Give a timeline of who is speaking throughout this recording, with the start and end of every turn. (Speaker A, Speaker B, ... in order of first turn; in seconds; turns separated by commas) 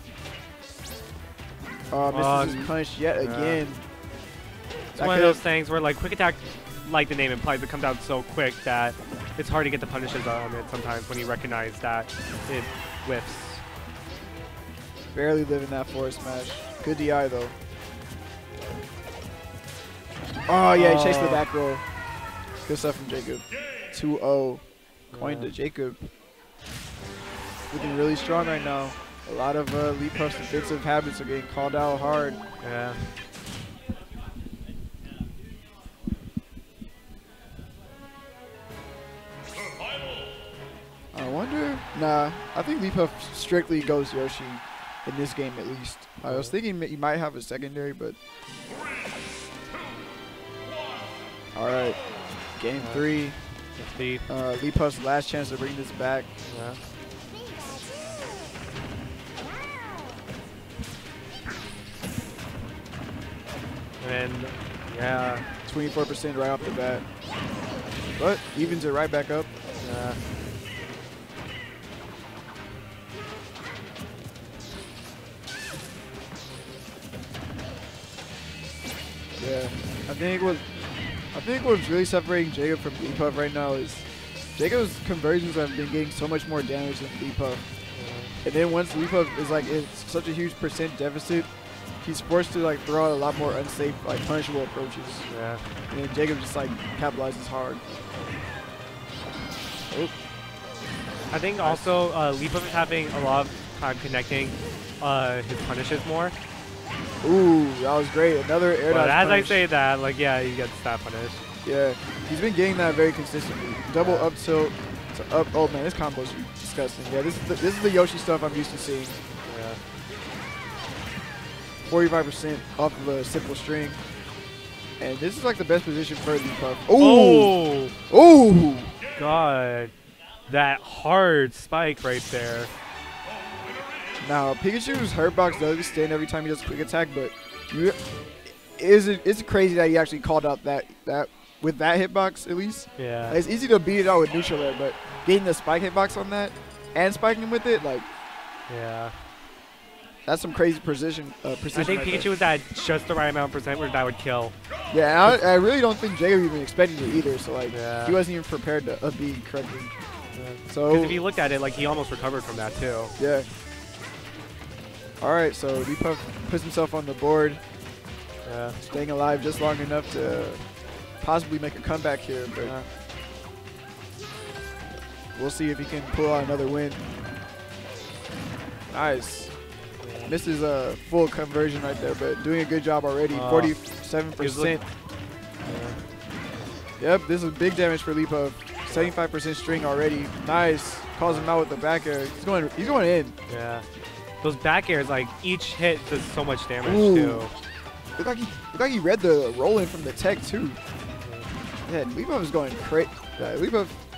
Speaker A: 1.9-3.8, Speaker B: 2.1-3.6, Speaker A: 4.9-5.4, Speaker B: 4.9-13.6, Speaker A: 15.1-17.5, Speaker A: 20.5-21.8, Speaker B: 20.7-21.4, Speaker A: 22.6-26.1, Speaker B: 25.1-25.5, Speaker A: 27.7-32.4, Speaker B: 32.6-33.1, Speaker A: 41.1-48.2, Speaker B: 46.2-46.6, Speaker A: 51.5-52.0, Speaker A: 52.5-53.4, Speaker B: 52.8-54.3, Speaker A: 54.3-56.4, Speaker B: 56.5-56.8, Speaker B: 64.0-65.5, Speaker A: 65.7-67.0, Speaker A: 68.1-69.5, Speaker B: 68.6-68.9, Speaker B: 69.8-70.2, Speaker A: 79.4-87.6, Speaker B: 87.9-88.3, Speaker A: 88.4-91.5, Speaker A: 92.0-95.3, Speaker B: 95.3-95.7, Speaker A: 95.9-97.8, Speaker B: 101.3-106.3, Speaker A: 101.6-102.0, Speaker A: 107.2-109.6, Speaker B: 108.9-111.4, Speaker A: 111.6-119.2, Speaker B: 114.0-114.3, Speaker B: 119.4-119.8, Speaker A: 121.8-124.0, Speaker A: 125.0-127.5, Speaker B: 126.9-127.9, Speaker A: 128.1-128.9, Speaker B: 129.2-129.9, Speaker B: 130.5-132.7, Speaker A: 134.2-138.0, Speaker A: 138.5-148.1, Speaker B: 142.9-143.4, Speaker B: 148.7-149.2, Speaker A: 150.2-152.3, Speaker B: 151.7-154.5, Speaker A: 154.9-159.9, Speaker B: 157.7-158.2, Speaker B: 160.3-163.1, Speaker A: 160.6-161.2, Speaker A: 163.2-163.5, Speaker A: 165.2-167.6, Speaker B: 168.4-168.8, Speaker A: 168.8-170.7, Speaker A: 171.2-172.8, Speaker B: 172.6-172.9, Speaker A: 175.3-177.0, Speaker A: 178.9-179.5, Speaker B: 180.0-180.3, Speaker A: 180.2-184.8, Speaker B: 183.3-183.8, Speaker B: 184.4-184.9, Speaker B: 185.6-186.0, Speaker A: 187.0-193.3, Speaker B: 188.9-189.1, Speaker B: 191.2-191.5, Speaker B: 193.5-193.8, Speaker B: 194.4-197.5, Speaker A: 196.8-197.4, Speaker A: 198.2-200.8, Speaker B: 201.2-201.5, Speaker A: 201.8-203.9